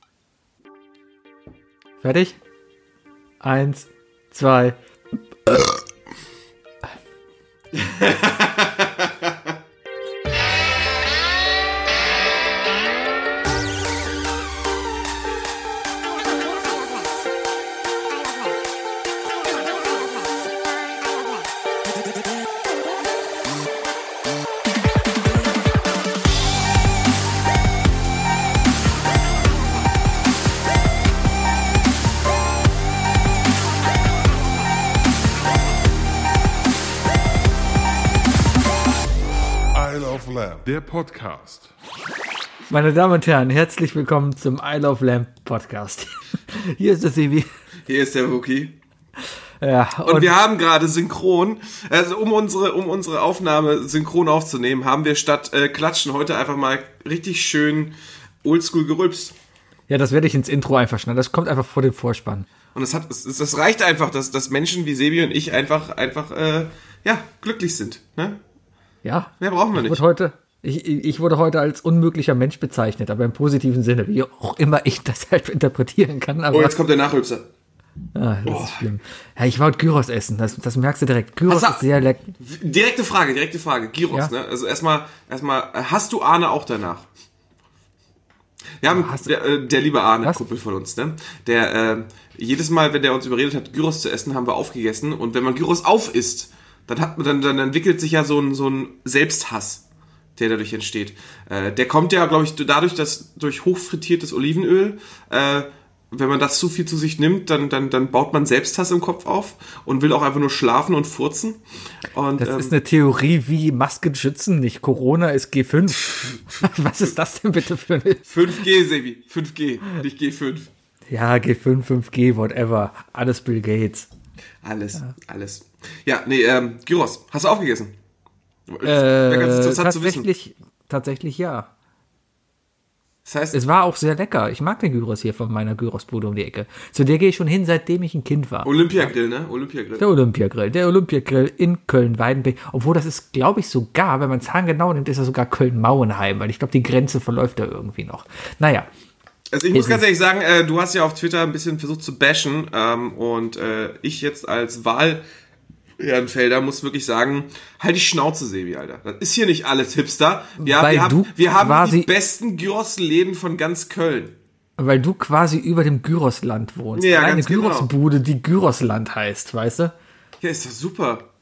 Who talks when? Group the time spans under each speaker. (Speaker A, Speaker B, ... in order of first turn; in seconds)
Speaker A: 2.0-2.4, 3.4-4.8, 42.7-47.5, 49.6-50.4, 59.9-62.5, 69.0-76.7, 78.1-82.3, 88.9-89.3, 112.4-118.3, 121.1-124.1, 128.8-131.7, 133.5-138.7, 140.0-148.9, 149.7-150.0, 160.6-162.1, 164.8-169.9
Speaker B: 7.7-9.5, 47.9-48.8, 50.0-59.3, 62.7-68.4, 69.4-70.0, 76.5-77.5, 78.4-78.8, 81.5-81.8, 82.4-87.1, 88.8-99.8, 100.3-111.6, 112.1-112.7, 118.3-120.7, 124.6-128.0, 128.7-130.3, 133.2-133.6, 138.6-140.1, 149.5-155.2, 156.0-164.3, 166.9-167.9, 170.4-171.2
Speaker C: 39.7-41.7